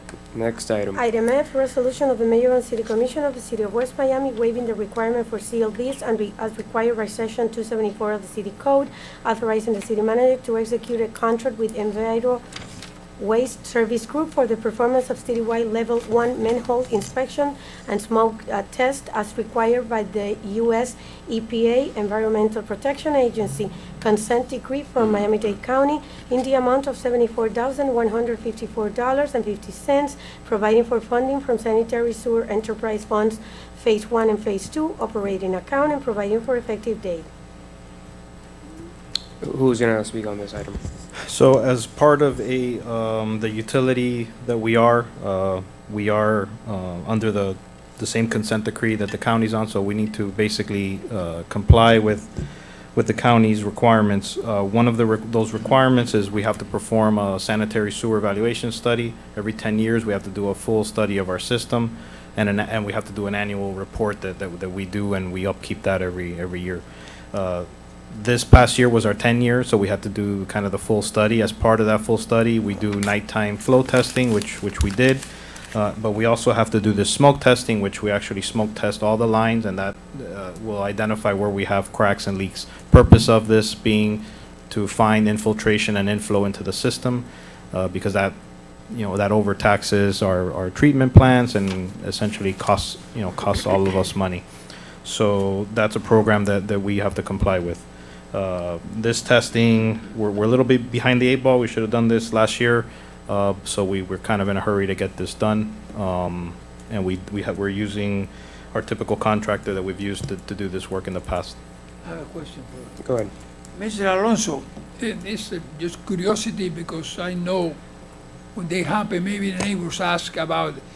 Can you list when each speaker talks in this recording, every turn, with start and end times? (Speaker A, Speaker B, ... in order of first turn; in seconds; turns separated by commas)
Speaker A: 0.3-1.0, Speaker B: 0.9-12.4, Speaker B: 13.2-37.2, Speaker A: 39.4-40.8, Speaker C: 41.1-52.3, Speaker C: 52.9-75.2, Speaker C: 75.7-88.3, Speaker C: 88.9-94.4, Speaker C: 95.0-111.5, Speaker D: 112.0-112.9, Speaker A: 113.0-113.3, Speaker D: 113.7-117.8, Speaker D: 118.5-120.8